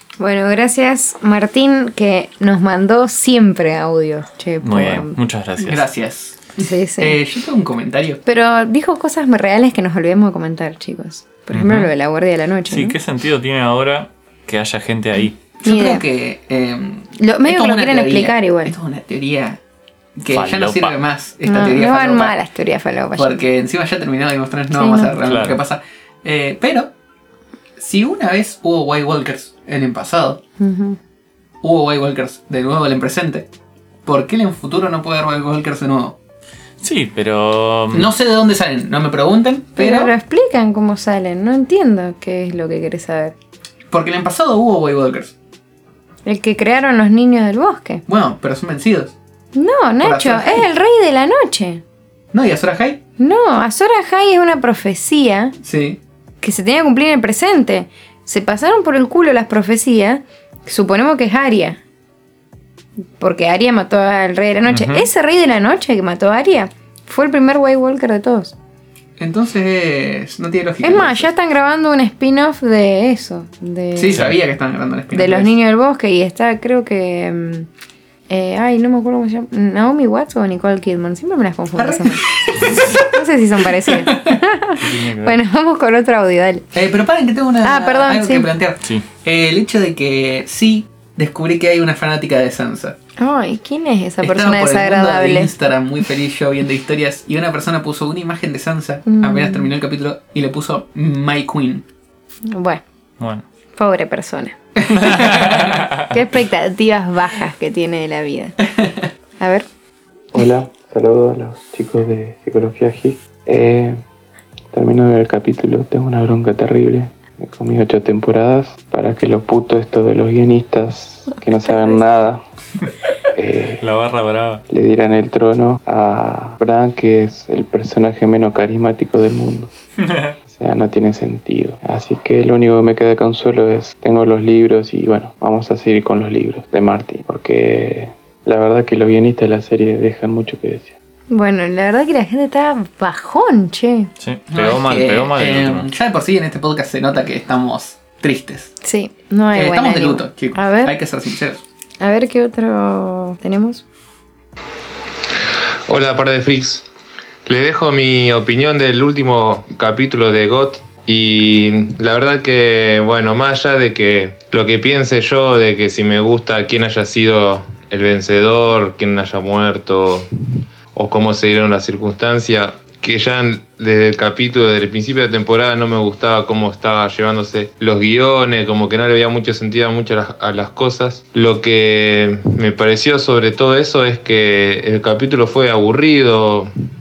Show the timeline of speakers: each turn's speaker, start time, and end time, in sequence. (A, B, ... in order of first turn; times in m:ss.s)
0:00.2-0:05.2 A
0:04.6-0:05.9 B
0:05.6-0:08.2 C
0:06.6-0:07.2 A
0:08.3-0:13.0 A
0:11.5-0:11.9 B
0:12.7-0:15.4 B
0:15.6-0:19.6 C
0:15.6-0:16.0 A
0:17.2-0:18.7 A
0:20.2-0:22.4 C
0:20.3-0:21.0 B
0:21.4-0:23.4 A
0:23.2-0:26.9 C
0:24.7-0:25.1 A
0:25.2-0:25.6 B
0:27.8-0:30.4 C
0:30.6-0:31.0 A
0:31.6-0:33.5 C
0:34.1-0:36.2 C
0:36.8-0:38.1 B
0:37.9-0:40.1 C
0:39.8-0:43.3 A
0:43.9-0:45.4 C
0:46.2-0:48.0 A
0:48.1-0:49.2 C
0:49.5-0:51.8 A
0:50.0-0:50.7 C
0:52.3-0:53.0 C
0:53.2-0:55.5 A
0:55.6-0:56.0 C
0:56.4-1:01.8 A
1:03.2-1:08.5 A
1:04.7-1:05.1 B
1:09.2-1:11.3 C
1:10.8-1:14.2 A
1:14.0-1:15.5 C
1:15.1-1:17.7 A
1:18.3-1:26.7 A
1:21.8-1:23.1 C
1:23.9-1:24.4 C
1:24.8-1:25.4 B
1:26.7-1:33.0 C
1:27.6-1:28.5 A
1:28.8-1:29.1 B
1:33.2-1:35.5 A
1:34.2-1:41.9 C
1:39.1-1:39.7 A
1:42.5-1:42.8 A
1:43.2-1:43.5 B
1:43.8-1:44.6 A
1:44.8-1:45.8 C
1:45.0-1:46.1 B
1:46.1-1:48.6 A
1:48.7-1:49.0 C
1:49.4-1:49.6 A
1:50.3-1:54.0 D
1:54.7-2:02.4 D
2:03.4-2:03.8 D
2:03.8-2:04.6 B
2:04.7-2:09.7 D
2:10.1-2:10.3 B
2:10.5-2:21.0 D
2:21.3-2:24.1 A
2:24.2-2:25.9 B
2:24.5-2:28.7 C
2:28.8-2:30.9 A
2:29.5-2:31.6 C
2:32.0-2:33.8 A
2:35.9-2:36.9 E
2:37.5-2:50.3 E
2:50.9-3:06.7 E